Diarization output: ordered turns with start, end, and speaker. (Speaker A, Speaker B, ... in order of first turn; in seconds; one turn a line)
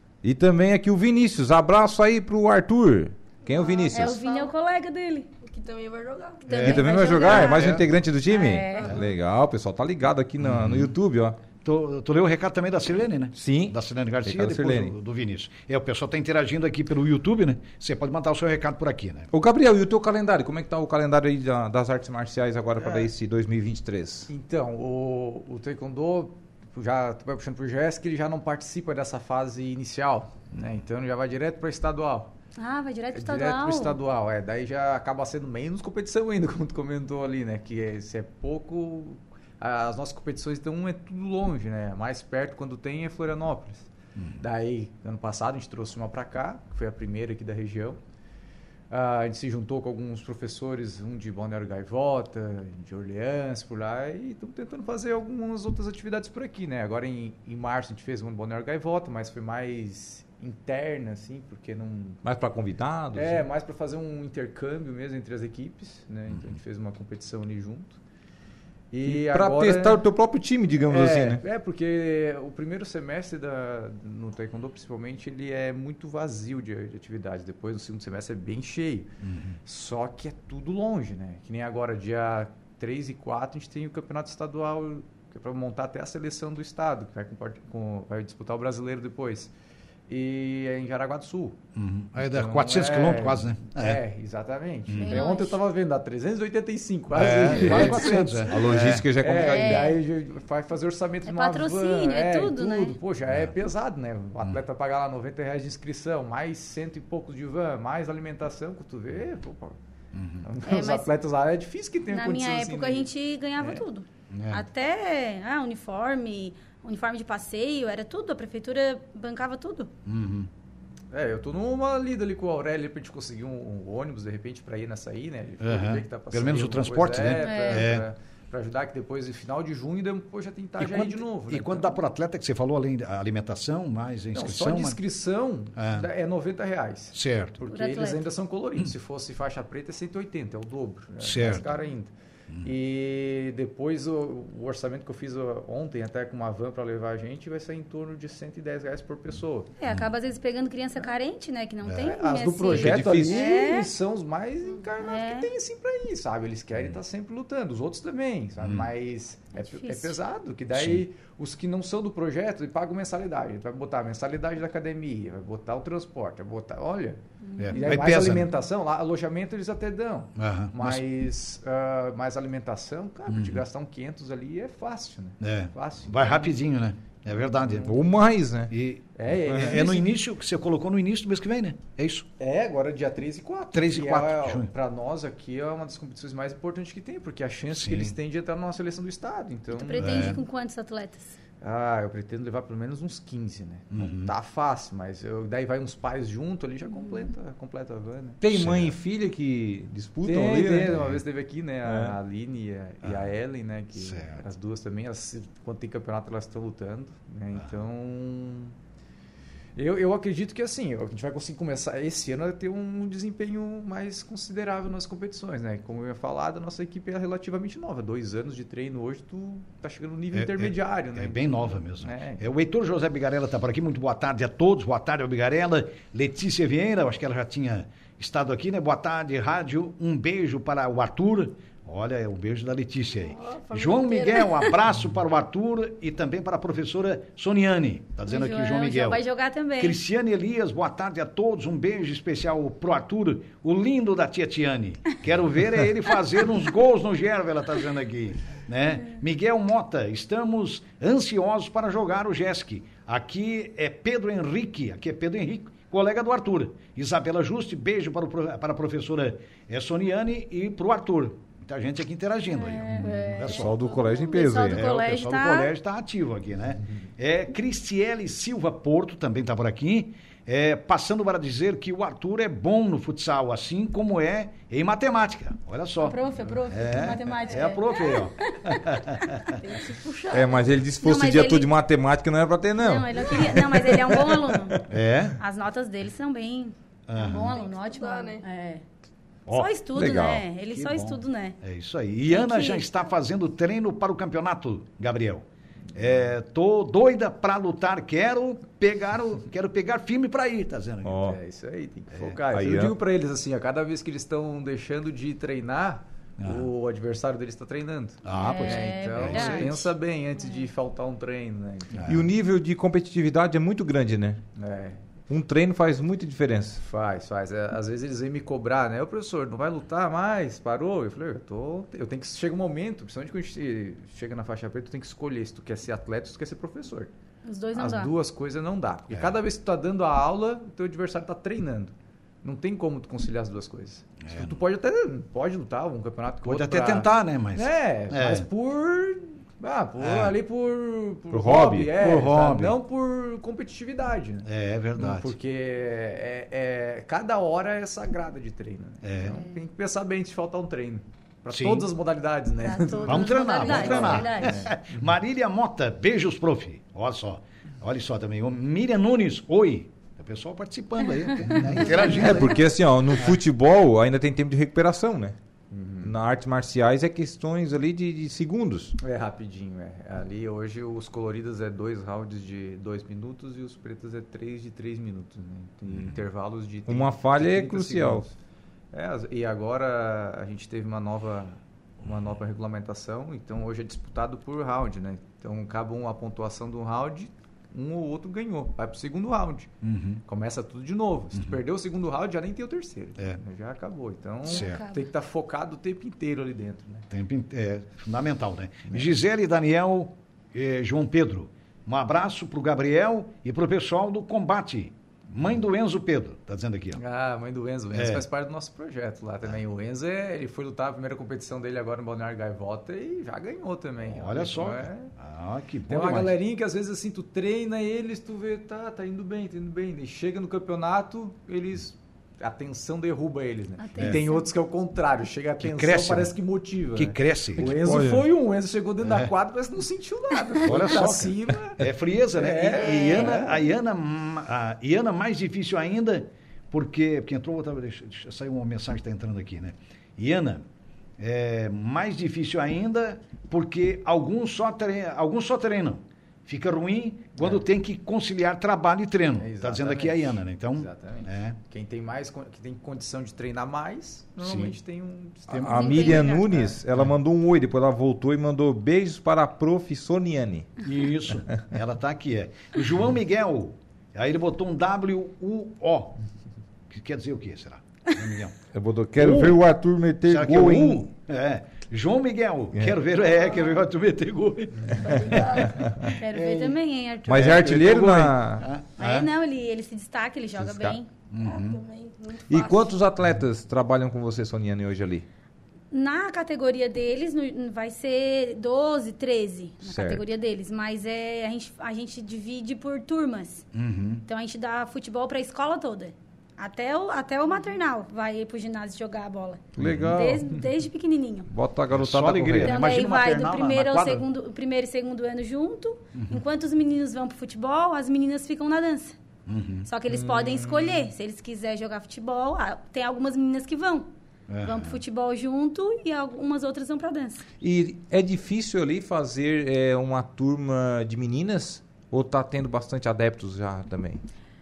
Speaker A: 0.2-4.2
Speaker B: 3.5-4.5
Speaker C: 3.9-5.3
Speaker B: 5.4-6.5
Speaker C: 6.4-8.9
Speaker D: 6.5-7.9
Speaker A: 6.5-11.4
Speaker B: 8.6-8.9
Speaker D: 10.4-10.9
Speaker D: 11.6-19.3
Speaker A: 13.3-14.9
Speaker A: 19.3-24.3
Speaker E: 24.3-32.3
Speaker C: 32.5-34.0
Speaker E: 33.1-48.0
Speaker D: 44.1-44.4
Speaker E: 48.9-62.2
Speaker A: 62.2-63.4
Speaker E: 63.1-68.0
Speaker E: 68.9-70.0
Speaker A: 69.0-71.4
Speaker E: 70.8-79.1
Speaker D: 79.2-79.6
Speaker E: 79.6-89.5
Speaker E: 90.1-91.6
Speaker D: 91.7-94.0
Speaker E: 92.2-109.8
Speaker D: 94.9-95.2
Speaker C: 95.0-95.6
Speaker D: 97.1-99.1
Speaker A: 97.2-99.9
Speaker C: 99.4-100.0
Speaker C: 101.2-103.0
Speaker D: 103.3-103.5
Speaker D: 110.1-110.5
Speaker E: 110.4-113.8
Speaker C: 110.6-111.1
Speaker C: 112.1-119.9
Speaker D: 114.3-114.6
Speaker D: 120.0-120.5
Speaker E: 121.1-132.0
Speaker D: 125.6-128.1
Speaker C: 127.4-127.9
Speaker D: 130.8-135.0
Speaker E: 134.3-142.1
Speaker D: 135.8-136.1
Speaker D: 137.1-137.6
Speaker C: 137.7-138.2
Speaker D: 141.2-141.7
Speaker E: 142.6-149.7
Speaker C: 149.8-153.9
Speaker D: 151.8-152.2
Speaker E: 152.0-167.2
Speaker A: 152.7-153.5
Speaker C: 155.0-155.5
Speaker D: 158.6-158.9
Speaker C: 159.5-160.2
Speaker D: 160.7-161.0
Speaker C: 167.4-168.0
Speaker D: 167.6-168.5
Speaker E: 167.7-176.6
Speaker D: 170.4-171.0
Speaker D: 173.3-173.6
Speaker D: 175.4-177.9
Speaker E: 177.5-178.0
Speaker A: 177.8-178.7
Speaker D: 178.7-182.3
Speaker E: 179.2-180.1
Speaker A: 179.5-179.8
Speaker E: 182.4-190.4
Speaker D: 183.7-184.7
Speaker D: 187.7-188.1
Speaker C: 189.7-191.3
Speaker D: 190.0-190.4
Speaker E: 191.6-198.4
Speaker D: 193.9-194.3
Speaker A: 198.4-201.0
Speaker D: 198.4-199.0
Speaker E: 200.2-208.7
Speaker D: 200.9-201.2
Speaker A: 201.8-202.1
Speaker D: 203.0-203.3
Speaker D: 203.9-204.4
Speaker E: 209.8-222.4
Speaker D: 220.3-239.2
Speaker B: 233.2-234.7
Speaker C: 238.3-240.0
Speaker D: 239.8-263.7
Speaker C: 262.5-263.5
Speaker B: 263.0-264.5
Speaker A: 263.5-264.8
Speaker C: 264.1-265.7
Speaker D: 264.6-279.5
Speaker C: 276.0-279.4
Speaker B: 279.5-280.8
Speaker A: 280.3-284.8
Speaker C: 281.0-281.7
Speaker C: 282.8-284.8
Speaker D: 284.9-285.4
Speaker C: 285.4-288.8
Speaker D: 287.1-287.6
Speaker B: 287.4-288.4
Speaker D: 289.5-289.7
Speaker C: 289.5-291.6
Speaker A: 289.9-290.4
Speaker D: 290.7-301.2
Speaker C: 292.3-292.9
Speaker A: 301.0-301.4
Speaker E: 301.2-312.0
Speaker D: 302.1-302.4
Speaker A: 302.5-302.9
Speaker D: 306.4-306.7
Speaker D: 308.2-309.8
Speaker C: 308.4-309.9
Speaker C: 310.4-310.7
Speaker D: 311.9-312.3
Speaker A: 312.1-314.4
Speaker E: 314.6-315.0
Speaker A: 315.3-316.8
Speaker E: 316.8-327.1
Speaker C: 327.4-328.1
Speaker E: 327.7-354.9
Speaker D: 329.1-329.4
Speaker D: 334.2-334.6
Speaker D: 336.4-338.5
Speaker D: 340.0-340.3
Speaker A: 341.3-341.9
Speaker D: 341.9-342.8
Speaker D: 344.4-345.3
Speaker D: 349.0-349.4
Speaker C: 349.2-349.5
Speaker D: 351.5-351.9
Speaker C: 352.6-354.7
Speaker D: 353.0-362.6
Speaker A: 361.7-365.4
Speaker E: 365.7-366.1
Speaker A: 366.0-368.9
Speaker E: 369.0-378.3
Speaker D: 375.9-376.2
Speaker A: 376.9-378.2
Speaker E: 378.9-389.7
Speaker D: 389.8-390.2
Speaker E: 390.2-397.1
Speaker D: 394.4-394.8
Speaker C: 394.5-395.0
Speaker D: 397.1-407.0
Speaker E: 406.9-415.1
Speaker D: 407.9-408.2
Speaker D: 414.1-416.4
Speaker E: 415.9-431.8
Speaker C: 423.8-424.5
Speaker D: 425.6-426.3
Speaker D: 426.9-427.7
Speaker A: 427.6-428.2
Speaker D: 429.0-429.3
Speaker D: 430.6-440.6
Speaker E: 432.3-433.6
Speaker C: 432.8-433.2
Speaker D: 441.2-451.6
Speaker E: 449.4-456.8
Speaker D: 454.4-454.7
Speaker A: 455.5-460.7
Speaker C: 455.7-456.5
Speaker D: 460.8-466.2
Speaker D: 466.9-468.6
Speaker A: 468.7-471.1
Speaker D: 469.1-469.6
Speaker D: 470.2-476.6
Speaker B: 475.0-475.8
Speaker A: 475.7-476.1
Speaker C: 476.1-477.7
Speaker A: 477.3-478.7
Speaker D: 477.3-479.3
Speaker C: 479.0-481.1
Speaker A: 480.6-480.9
Speaker D: 481.3-481.8
Speaker B: 481.4-483.0
Speaker A: 482.5-485.2
Speaker C: 485.9-493.6
Speaker A: 489.8-490.2
Speaker D: 493.7-494.2
Speaker C: 494.2-501.5
Speaker A: 499.8-500.6
Speaker D: 499.8-500.2
Speaker A: 501.5-502.8
Speaker D: 501.9-504.2
Speaker C: 502.6-509.1
Speaker D: 506.1-506.4
Speaker D: 509.4-509.9
Speaker C: 509.8-514.1
Speaker A: 510.1-511.1
Speaker D: 514.5-515.0
Speaker C: 514.6-517.4
Speaker A: 517.6-524.2